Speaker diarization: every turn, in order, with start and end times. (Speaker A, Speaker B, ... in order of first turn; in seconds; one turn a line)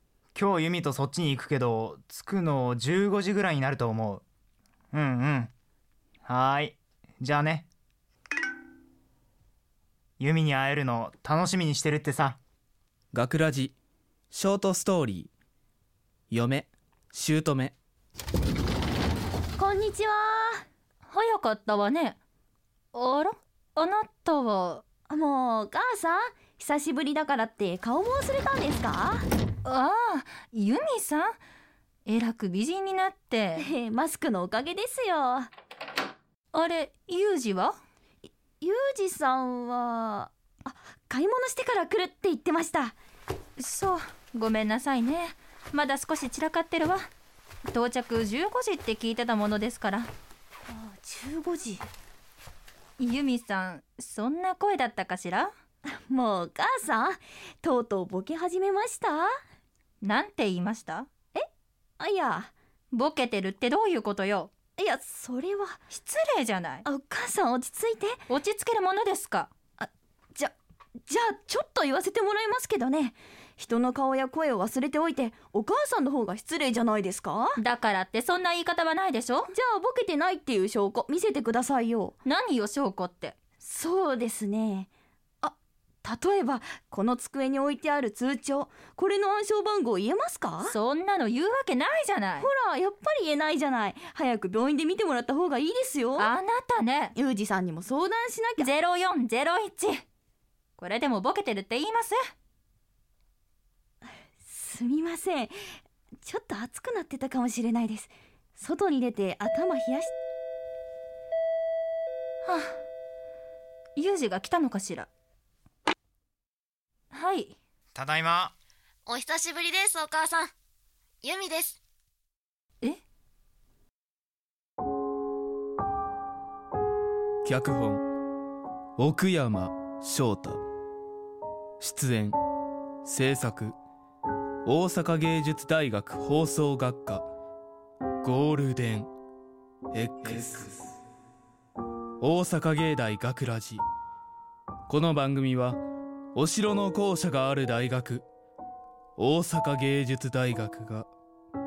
Speaker A: 0.3-4.2
Speaker A: 4.9-5.5
Speaker A: 6.2-7.7
Speaker A: 10.2-12.4
Speaker B: 13.1-13.8
Speaker B: 14.3-15.3
Speaker B: 16.3-17.7
Speaker C: 19.6-20.6
Speaker D: 21.1-22.2
Speaker D: 22.9-24.9
Speaker C: 25.1-29.3
Speaker D: 29.6-31.4
Speaker D: 32.1-33.7
Speaker C: 33.6-35.5
Speaker D: 36.5-37.8
Speaker C: 38.2-43.0
Speaker D: 43.6-47.1
Speaker D: 47.7-50.1
Speaker C: 50.7-51.9
Speaker D: 53.0-55.5
Speaker C: 55.9-59.3
Speaker D: 60.0-61.1
Speaker C: 62.0-62.5
Speaker D: 62.9-64.5
Speaker C: 64.8-65.8
Speaker D: 65.9-66.9
Speaker C: 66.8-68.2
Speaker D: 68.3-69.5
Speaker C: 69.8-70.5
Speaker C: 71.1-77.6
Speaker D: 77.6-79.5
Speaker C: 79.5-82.2
Speaker D: 82.2-83.4
Speaker C: 83.6-84.9
Speaker C: 85.4-90.8
Speaker D: 90.7-92.5
Speaker C: 92.4-96.3
Speaker D: 96.2-97.2
Speaker C: 97.2-98.7
Speaker D: 98.6-100.0
Speaker D: 100.8-102.2
Speaker C: 104.1-105.7
Speaker C: 106.2-110.1
Speaker D: 112.4-112.8
Speaker D: 114.0-115.1
Speaker D: 117.1-117.6
Speaker A: 117.9-118.5
Speaker E: 119.1-120.5
Speaker E: 121.2-121.8
Speaker B: 127.5-128.0
Speaker B: 129.0-130.6
Speaker B: 131.8-132.4
Speaker B: 133.0-133.8
Speaker B: 134.7-137.2
Speaker B: 138.2-139.1
Speaker B: 139.9-140.9
Speaker B: 142.2-143.8
Speaker B: 144.9-145.8
Speaker B: 146.3-148.3
Speaker B: 149.2-151.1